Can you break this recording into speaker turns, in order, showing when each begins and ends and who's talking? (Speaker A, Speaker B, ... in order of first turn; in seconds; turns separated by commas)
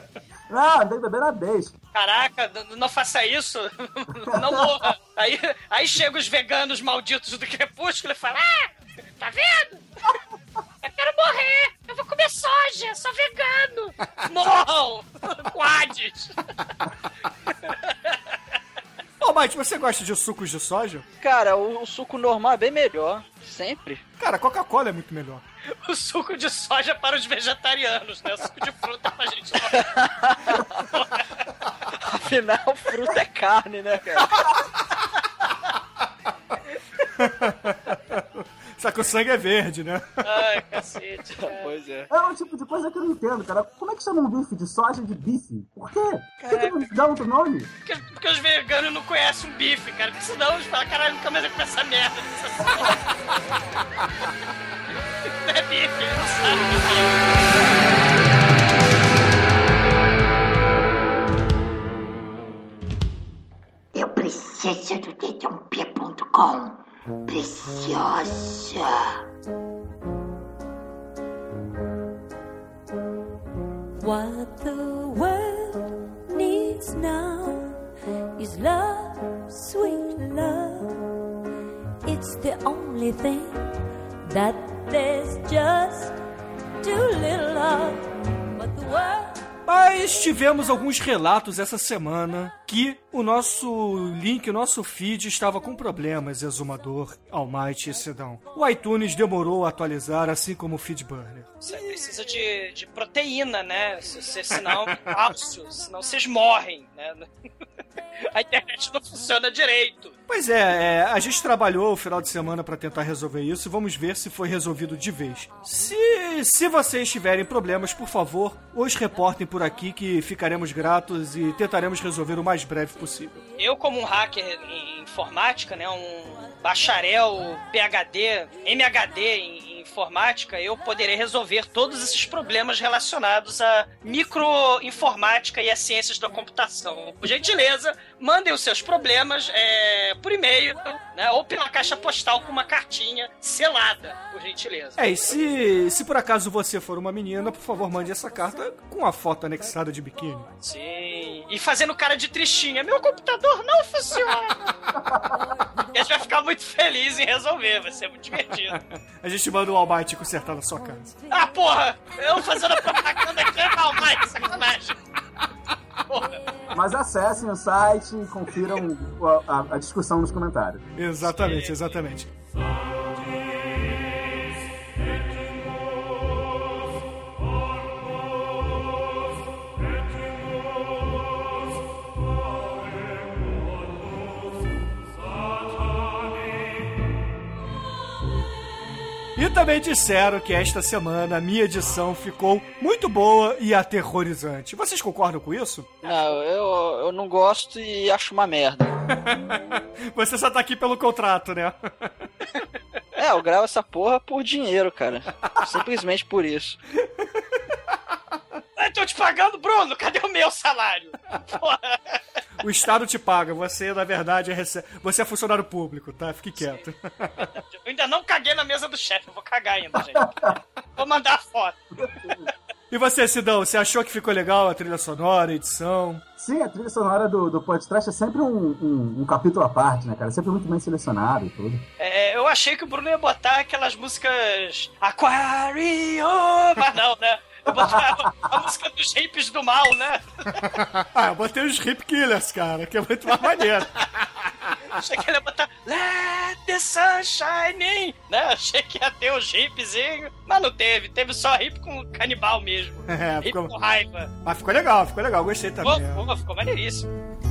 Speaker A: 0.5-1.7, Speaker B: 1.9-9.8, Speaker A: 4.3-4.8, Speaker B: 10.8-16.4, Speaker B: 17.6-18.2, Speaker C: 19.2-21.0, Speaker D: 21.2-24.0, Speaker C: 24.2-25.4, Speaker B: 25.8-30.0, Speaker D: 29.7-30.7, Speaker B: 30.6-31.3, Speaker D: 32.0-34.3, Speaker C: 37.1-40.8, Speaker B: 40.2-41.7, Speaker D: 41.4-42.1, Speaker A: 42.1-47.7, Speaker B: 47.9-53.0, Speaker B: 55.4-57.1, Speaker E: 63.9-68.9, Speaker F: 74.0-77.8, Speaker F: 78.4-80.9, Speaker F: 82.0-83.7, Speaker F: 84.2-86.1, Speaker F: 86.8-89.3, Speaker C: 89.7-101.6, Speaker B: 101.6-107.2, Speaker B: 108.3-110.1, Speaker C: 110.3-123.4, Speaker B: 123.6-145.3, Speaker C: 145.0-150.5, Speaker B: 150.6-154.6, Speaker A: 155.0-155.3, Speaker B: 155.9-158.8, Speaker C: 158.7-161.1, Speaker B: 161.3-165.0, Speaker B: 166.1-166.4, Speaker A: 166.7-170.8, Speaker C: 170.9-172.3, Speaker B: 171.2-171.8, Speaker C: 189.3-195.9, Speaker D: 196.0-199.0, Speaker C: 199.2-199.5, Speaker C: 200.1-202.1, Speaker D: 203.2-206.8, Speaker B: 208.8-212.2, Speaker C: 212.6-217.5, Speaker B: 217.6-222.5, Speaker A: 220.1-220.5, Speaker A: 222.0-222.5, Speaker C: 222.9-226.2, Speaker A: 226.4-231.8, Speaker B: 232.0-240.6, Speaker A: 237.7-238.3, Speaker C: 240.6-245.0, Speaker B: 244.9-254.3, Speaker C: 253.1-253.7, Speaker C: 254.4-256.2, Speaker B: 255.8-257.1